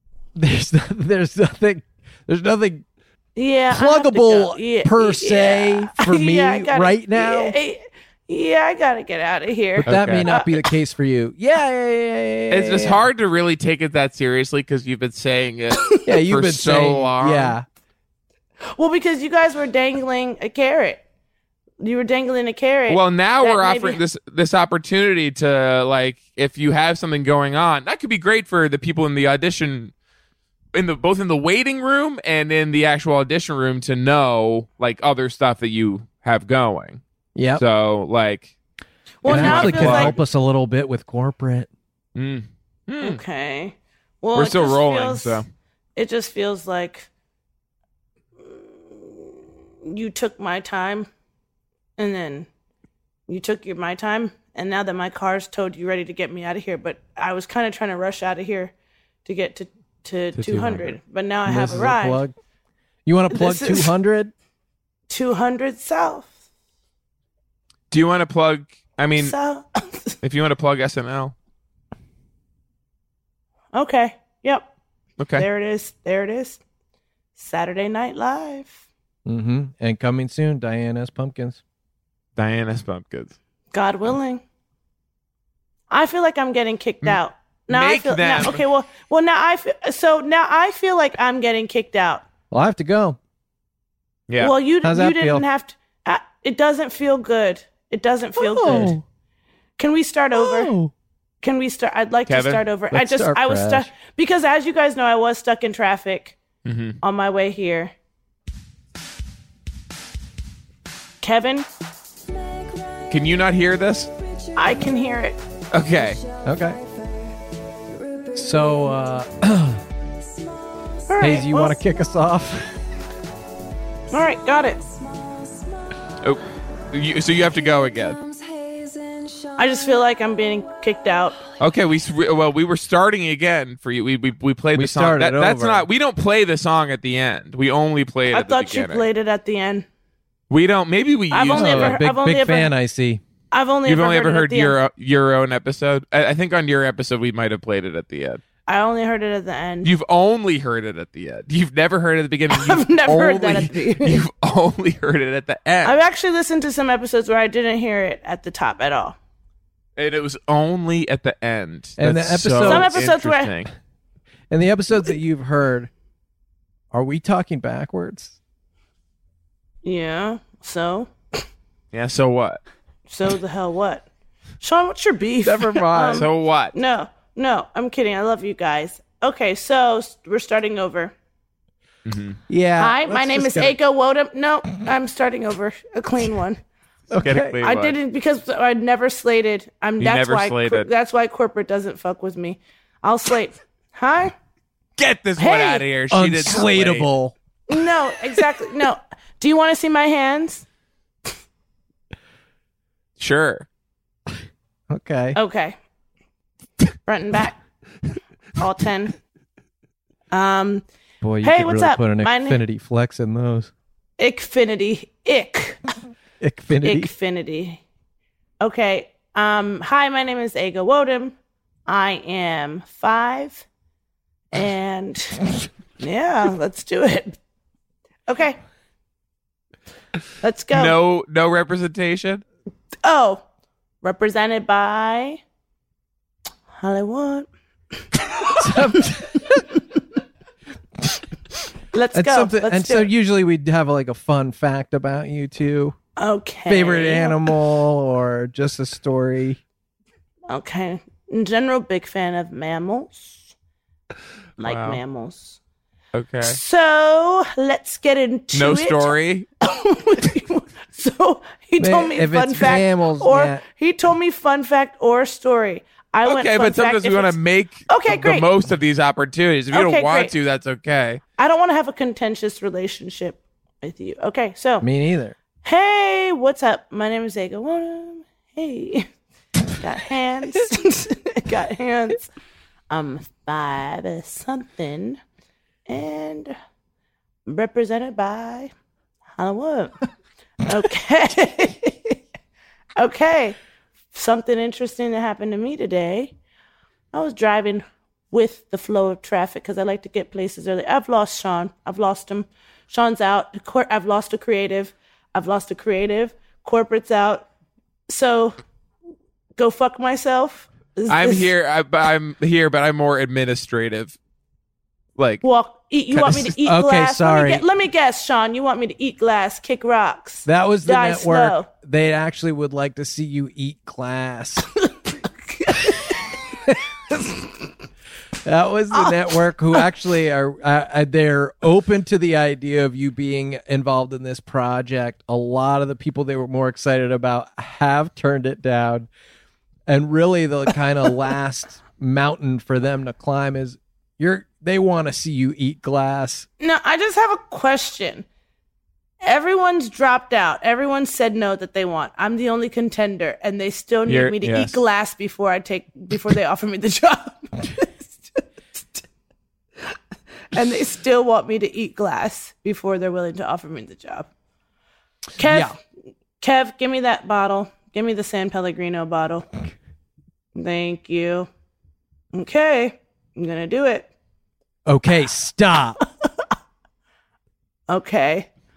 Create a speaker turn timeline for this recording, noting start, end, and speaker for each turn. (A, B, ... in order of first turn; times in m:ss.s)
0:00.3-0:02.8 A
0:03.4-0:10.6 B
0:03.7-0:07.6 A
0:09.8-0:13.0 A
0:09.8-0:10.3 C
0:12.5-0:17.6 C
0:16.0-0:17.6 A
0:18.8-0:21.0 B
0:21.8-0:24.0 B
0:22.9-0:29.9 C
0:30.7-0:37.0 C
0:37.3-0:37.6 A
0:37.6-0:38.5 C
0:39.2-0:40.2 B
0:39.2-0:40.2 C
0:39.2-0:41.7 A
0:42.2-0:43.2 C
0:43.0-0:45.4 B
0:44.3-0:45.4 C
0:46.0-0:47.1 B
0:48.4-0:51.1 B
0:52.0-0:52.5 B
0:53.3-0:58.7 B
0:59.2-1:02.2 B
1:00.4-1:00.9 A
1:01.4-1:02.3 A
1:03.0-1:04.3 A
1:03.3-1:03.9 B
1:05.1-1:06.3 B
1:07.9-1:09.3 C
1:09.2-1:10.2 B
1:10.2-1:11.3 C
1:13.7-1:14.7 B
1:15.2-1:15.4 C
1:15.3-1:16.6 B
1:17.4-1:18.8 B
1:19.2-1:21.6 A
1:22.4-1:23.4 C
1:23.7-1:24.4 B
1:25.9-1:32.2 B
1:27.7-1:28.6 C
1:32.5-1:33.2 A
1:34.3-1:34.5 C
1:34.4-1:39.0 B
1:34.8-1:35.4 A
1:38.4-1:39.0 A
1:39.8-1:40.7 B
1:40.3-1:40.9 A
1:41.4-1:46.4 B
1:42.3-1:42.6 C
1:42.9-1:43.9 A
1:46.6-1:47.0 C
1:47.0-1:47.9 B
1:51.2-1:51.6 B
1:53.1-1:54.1 C
1:54.5-1:55.4 B
1:55.7-1:56.2 C
1:56.4-1:56.8 A
1:58.3-1:59.8 A
2:01.1-2:01.8 B
2:01.2-2:02.8 A
2:04.1-2:04.8 B
2:06.2-2:08.2 C
2:09.5-2:11.4 B
2:11.6-2:19.1 C
2:14.7-2:15.9 A
2:18.3-2:19.8 B
2:20.5-2:22.0 C
2:21.3-2:22.7 B
2:21.5-2:23.2 A
2:23.5-2:24.8 B
2:23.8-2:28.4 C
2:28.7-2:29.9 B
2:29.8-2:36.0 C
2:32.5-2:34.2 B
2:35.8-2:39.2 B
2:40.0-2:43.7 C
2:42.0-2:43.0 A
2:42.6-2:43.5 B
2:44.5-2:45.9 A
2:46.9-2:48.4 A
2:49.8-2:51.4 B
2:51.9-2:52.6 C
2:53.1-2:54.0 B
2:54.6-3:01.1 B
2:55.4-2:56.2 A
2:56.1-2:56.7 C
3:02.0-3:02.4 C
3:02.5-3:03.8 A
3:02.8-3:06.6 B
3:07.1-3:07.6 A
3:07.2-3:08.0 C
3:07.6-3:14.3 B
3:10.0-3:10.9 C
3:15.0-3:17.1 C
3:15.4-3:15.9 B
3:16.1-3:17.3 A
3:17.7-3:20.6 B
3:23.2-3:23.6 C
3:24.9-3:25.4 A
3:25.3-3:25.8 B
3:27.0-3:27.6 B
3:28.6-3:29.1 B
3:30.3-3:30.8 B
3:31.2-3:33.7 A
3:31.4-3:32.6 B
3:34.2-3:35.8 B
3:36.4-3:37.1 A
3:36.8-3:37.8 B
3:38.6-3:41.3 B
3:41.8-3:43.6 B
3:44.5-3:45.5 B
3:46.0-3:47.4 B
3:48.3-3:48.6 B
3:50.4-3:50.9 B
3:50.7-3:52.4 C
3:53.0-3:53.4 B
3:54.0-3:55.4 B
3:56.7-3:57.5 B
3:58.3-3:59.1 B
3:58.6-3:59.7 A
4:01.9-4:03.1 B
4:02.1-4:06.0 A
4:06.2-4:07.4 B
4:06.7-4:09.6 A
4:10.5-4:13.5 B
4:14.6-4:15.6 B
4:14.6-4:15.0 C
4:16.1-4:16.6 C
4:16.4-4:27.4 B
4:18.5-4:19.5 C
4:21.8-4:23.6 A
4:26.2-4:31.2 C
4:27.9-4:28.5 B
4:29.7-4:30.3 B
4:31.4-4:34.9 B
4:34.8-4:35.4 A
4:35.6-4:39.1 B
4:39.8-4:42.3 B
4:42.9-4:45.2 B
4:45.9-4:46.5 B
4:47.4-4:48.7 B
4:49.4-4:50.0 B
4:50.6-4:52.2 B
4:53.0-4:53.6 B
4:54.1-4:56.3 B
4:57.1-5:07.5 B
5:08.1-5:08.6 B
5:09.6-5:11.5 B
5:11.1-5:14.2 C
5:15.2-5:15.4 C
5:15.4-5:21.7 B
5:16.1-5:17.6 A
5:20.4-5:24.7 A
5:25.5-5:26.3 B
5:27.1-5:27.4 B
5:28.4-5:39.1 A
5:39.9-5:46.5 A
5:46.6-5:48.2 B
5:49.2-5:59.0 B
5:54.1-5:54.8 C
6:00.5-6:04.3 B
6:05.4-6:05.7 B
6:05.4-6:05.7 A
6:06.4-6:09.5 B
6:10.5-6:11.5 B
6:12.3-6:14.1 B
6:14.8-6:16.0 A
6:17.9-6:18.5 B